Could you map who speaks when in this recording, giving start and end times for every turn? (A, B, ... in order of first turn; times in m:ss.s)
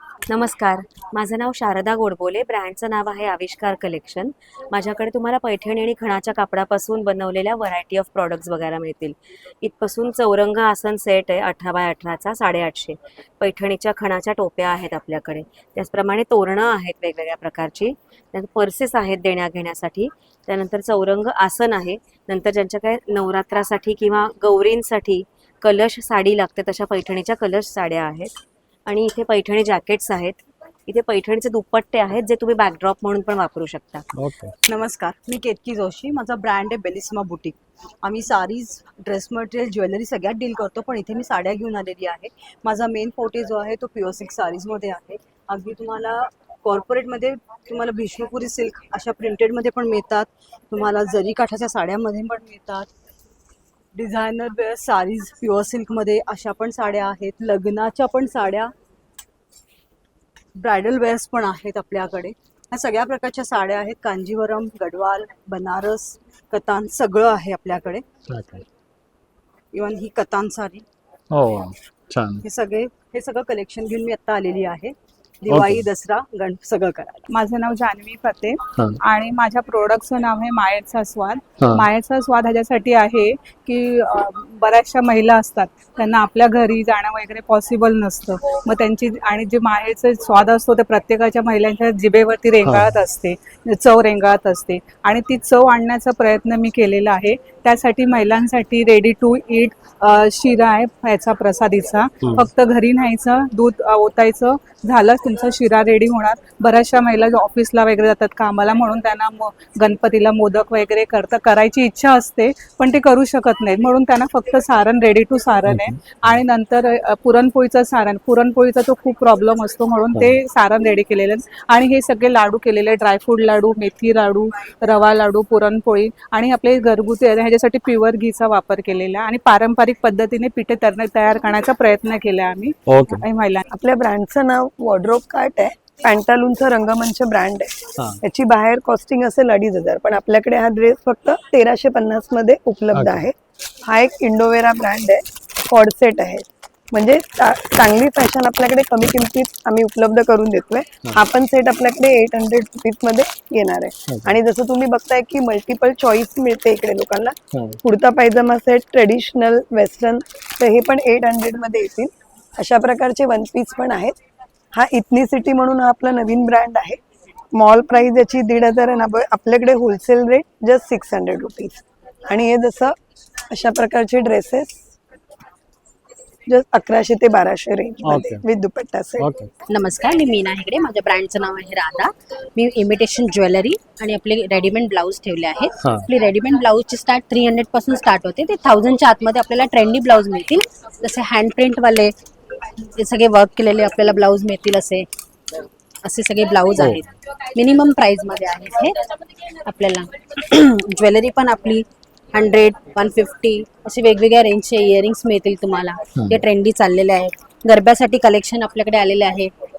0:00.3-0:28.3 A
0:28.8-0:34.0 A
0:34.2-0:34.5 B
0:34.6-0:52.9 C
0:53.9-0:58.7 C
1:00.6-1:08.0 C
1:08.3-1:08.6 B
1:09.7-1:10.8 C
1:11.3-1:12.4 B
1:12.4-1:17.3 C
1:15.5-1:15.8 B
1:17.3-2:13.6 D
1:21.6-1:21.9 B
1:32.6-1:33.0 B
1:42.2-1:42.5 B
1:55.7-1:56.4 B
2:12.9-2:13.2 B
2:13.7-2:23.3 E
2:23.0-2:23.2 B
2:23.9-2:44.1 E
2:44.7-2:47.0 E
2:47.5-2:52.9 E
2:53.5-2:54.7 E
2:56.5-2:59.3 E
2:58.1-2:58.4 B
2:59.7-3:12.1 F
3:13.0-3:15.1 F
3:16.0-3:18.9 F
3:19.6-3:29.5 F
3:26.2-3:26.4 B